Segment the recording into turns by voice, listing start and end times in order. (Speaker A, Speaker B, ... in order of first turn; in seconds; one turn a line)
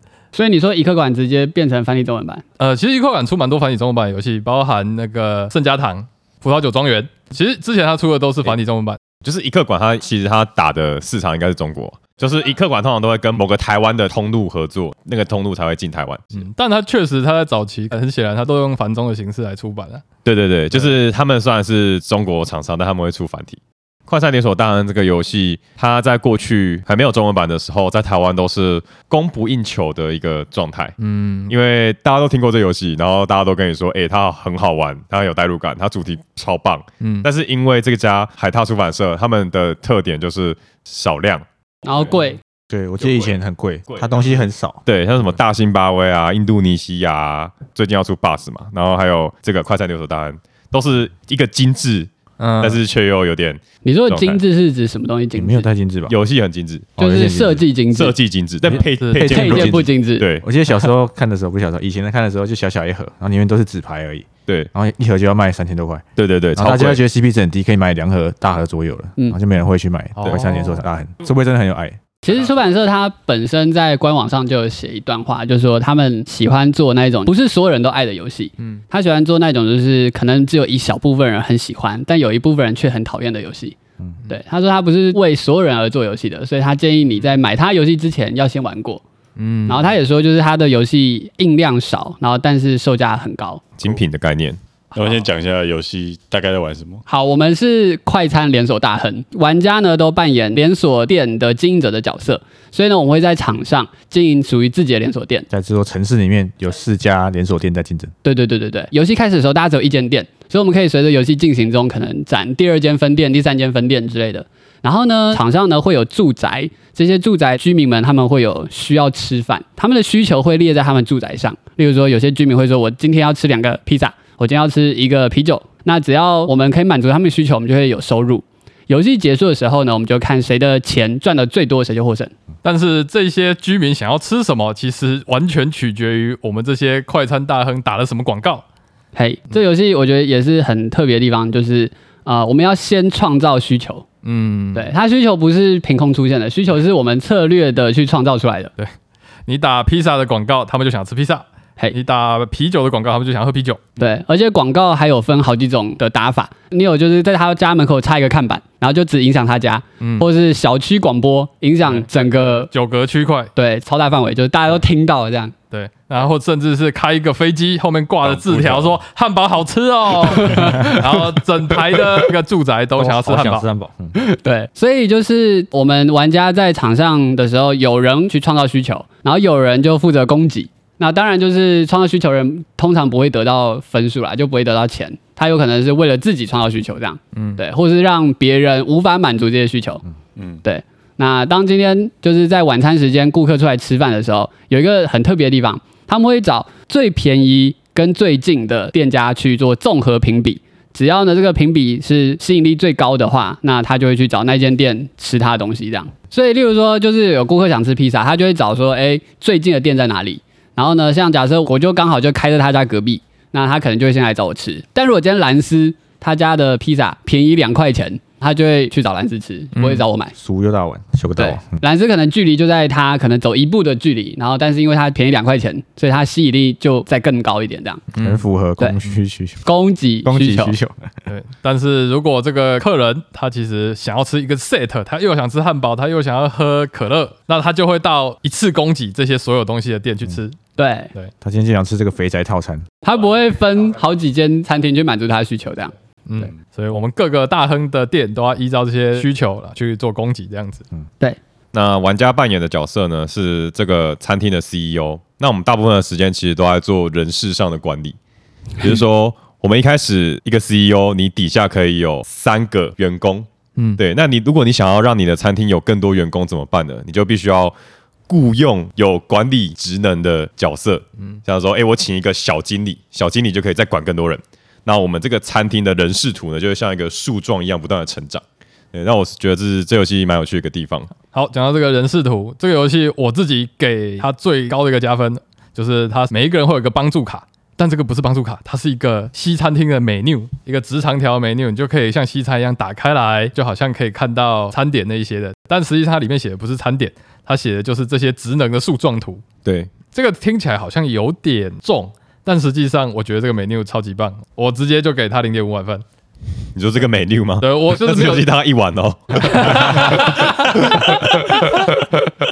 Speaker A: 0.3-2.4
Speaker B: 2.6-9.0
Speaker C: 9.2-16.4
Speaker B: 16.3-20.0
Speaker C: 20.2-31.0
Speaker B: 20.7-21.0
Speaker B: 31.0-31.5
Speaker C: 31.5-42.1
Speaker B: 37.0-37.3
Speaker A: 41.8-42.4
Speaker D: 42.7-44.8
Speaker C: 43.0-43.4
Speaker C: 43.9-54.4
Speaker B: 52.4-52.8
Speaker A: 53.8-55.7
Speaker D: 55.4-56.1
Speaker C: 56.1-56.9
Speaker D: 57.0-57.6
Speaker A: 57.0-58.2
Speaker C: 57.9-60.5
Speaker B: 58.8-59.3
Speaker D: 59.1-59.9
Speaker A: 59.2-60.3
Speaker D: 60.4-72.0
Speaker C: 66.2-67.0
Speaker B: 70.2-70.8
Speaker A: 72.2-83.8
Speaker A: 84.3-89.0
Speaker B: 89.4-89.9
Speaker A: 89.7-93.6
Speaker C: 93.8-94.6
Speaker E: 95.0-97.0
Speaker A: 97.1-105.5
Speaker D: 105.5-108.1
Speaker A: 108.2-132.3
Speaker B: 132.6-138.6
Speaker A: 139.2-144.1
Speaker B: 144.2-144.9
Speaker A: 144.8-148.7
Speaker B: 149.5-153.9
Speaker A: 154.0-162.7
Speaker B: 160.0-160.3
Speaker B: 161.8-163.5
Speaker A: 163.6-165.5
Speaker B: 165.7-173.7
Speaker E: 168.2-168.9
Speaker A: 170.4-171.1
Speaker D: 173.0-174.2
Speaker A: 174.2-190.0
Speaker B: 187.3-187.6
Speaker A: 190.6-220.3
Speaker B: 219.8-220.1
Speaker D: 220.4-221.8
Speaker A: 221.4-228.0
Speaker B: 228.1-228.4
Speaker D: 228.2-229.6
Speaker A: 229.6-230.8
Speaker D: 230.2-231.1
Speaker B: 231.3-240.6
Speaker A: 240.8-241.1
Speaker D: 241.4-242.8
Speaker A: 243.0-245.9
Speaker B: 246.3-250.8
Speaker C: 251.7-258.2
Speaker C: 258.8-267.8
Speaker C: 268.3-281.1
Speaker B: 281.3-299.4
Speaker C: 299.6-299.9
Speaker B: 300.1-306.0
Speaker C: 306.8-311.4
Speaker B: 307.6-308.5
Speaker B: 309.4-311.8